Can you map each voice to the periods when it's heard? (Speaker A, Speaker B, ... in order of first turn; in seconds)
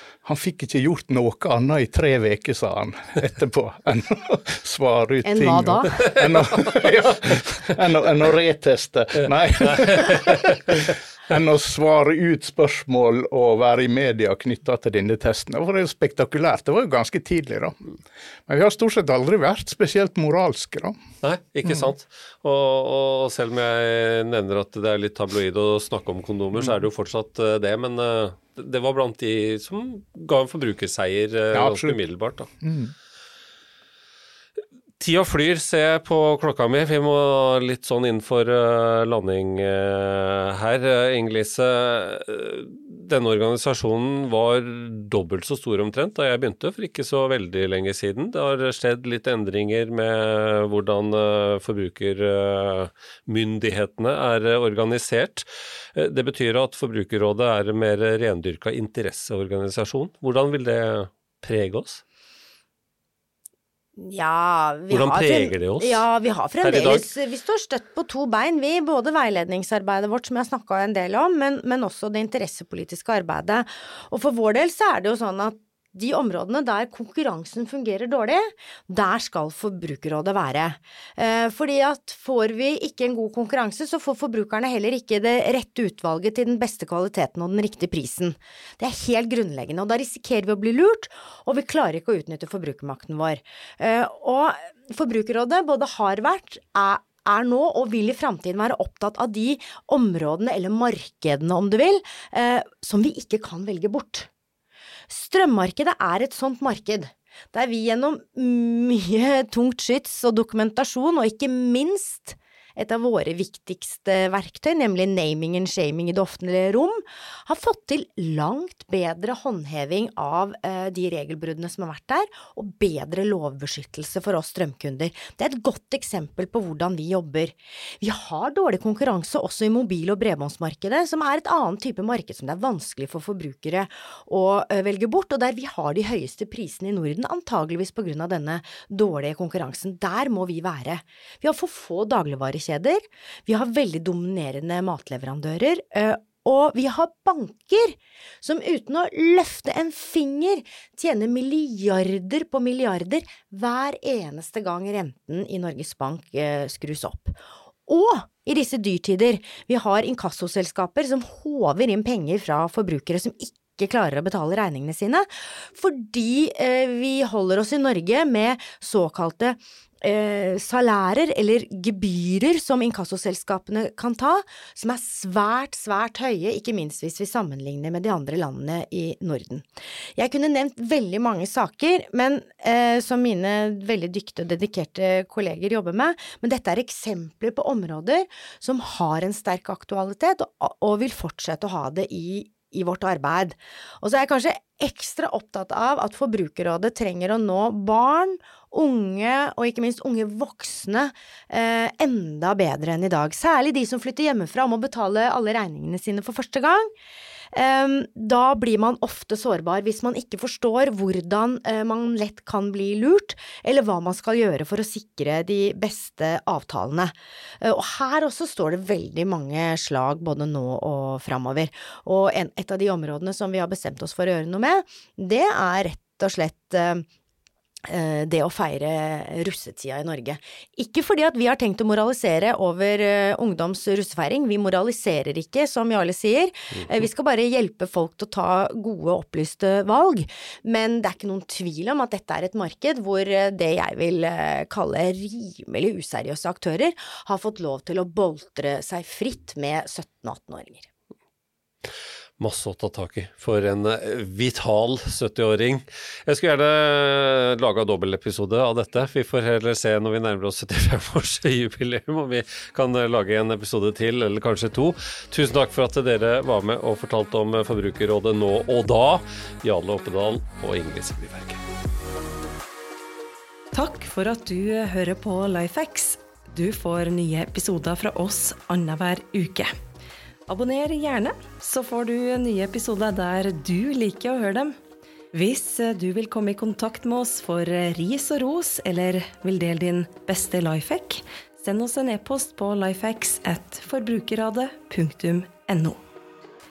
Speaker A: 0.2-17.8, 18.5-20.9, 31.5-32.0, 32.6-32.9
Speaker B: 5.2-6.0, 64.0-104.3, 105.1-179.7, 180.2-206.9, 207.5-227.1, 227.9-250.9
Speaker C: 9.7-10.4, 21.2-32.5, 35.0-62.0, 64.9-66.0, 66.6-67.1, 252.4-271.6
Speaker D: 273.7-279.7, 280.5-284.8, 285.3-296.0